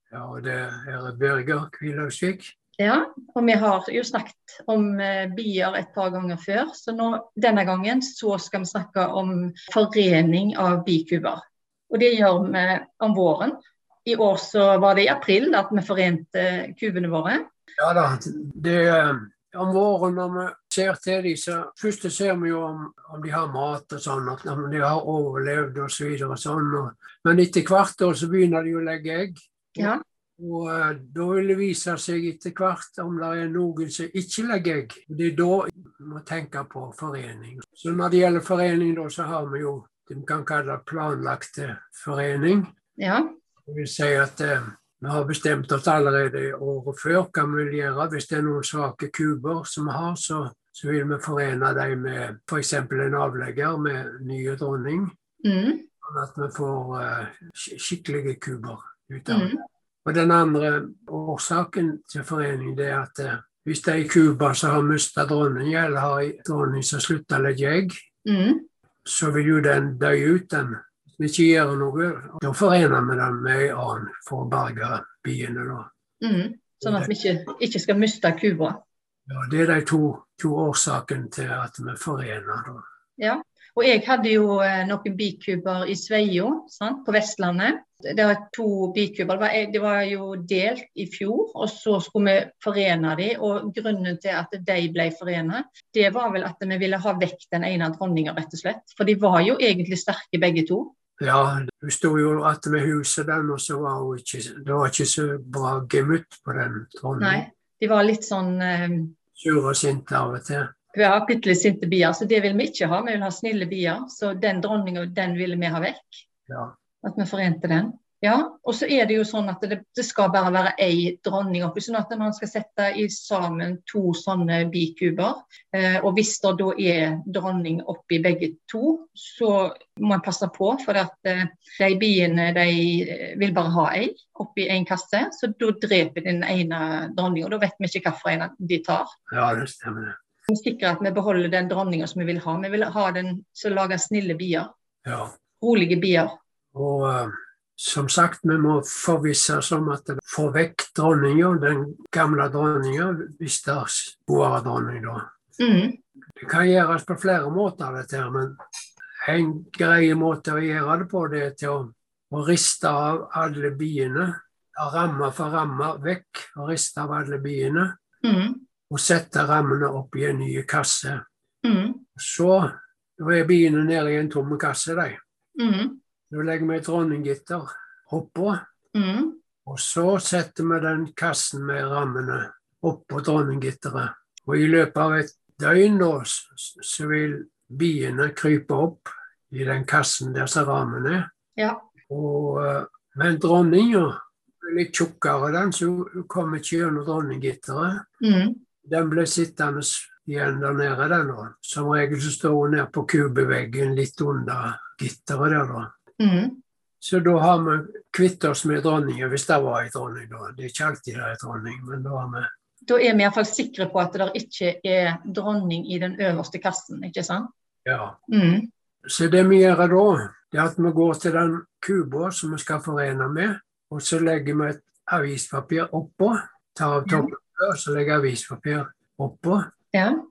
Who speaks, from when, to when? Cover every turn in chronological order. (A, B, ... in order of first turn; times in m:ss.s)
0:00.1-0:02.5 A
0:02.8-0:17.4 B
0:17.8-0:42.7 A
0:43.0-0:43.3 B
0:43.7-0:55.1 A
0:55.4-0:55.9 B
0:56.0-0:59.5 A
0:59.3-0:59.6 B
1:00.0-1:07.9 A
1:08.2-1:08.7 B
1:09.0-1:15.8 A
1:16.2-1:18.8 B
1:16.8-1:17.1 A
1:19.3-1:22.8 A
1:23.2-1:40.9 B
1:41.2-1:47.4 A
1:47.2-1:49.1 B
1:49.4-1:50.7 A
1:50.9-1:56.3 B
1:57.0-2:19.1 B
2:19.3-2:20.1 A
2:20.5-2:24.7 B
2:25.0-2:25.3 A
2:25.6-2:26.3 B
2:26.7-2:35.2 A
2:35.6-2:36.0 B
2:36.4-2:38.6 A
2:39.2-2:47.9 A
2:48.2-2:48.6 B
2:48.9-2:51.2 A
2:51.6-2:52.0 B
2:52.2-2:55.2 A
2:55.6-2:56.0 B
2:56.3-2:58.6 A
2:58.9-2:59.4 B
2:59.6-3:11.3 A
3:11.6-3:11.8 B
3:12.1-3:18.0 A
3:18.2-3:18.6 B
3:18.8-3:25.9 A
3:26.2-3:26.6 B
3:27.0-3:32.5 A
3:32.9-3:37.5 B
3:37.8-3:38.2 A
3:38.3-3:38.7 B
3:39.0-3:49.6 A
3:47.0-3:47.3 B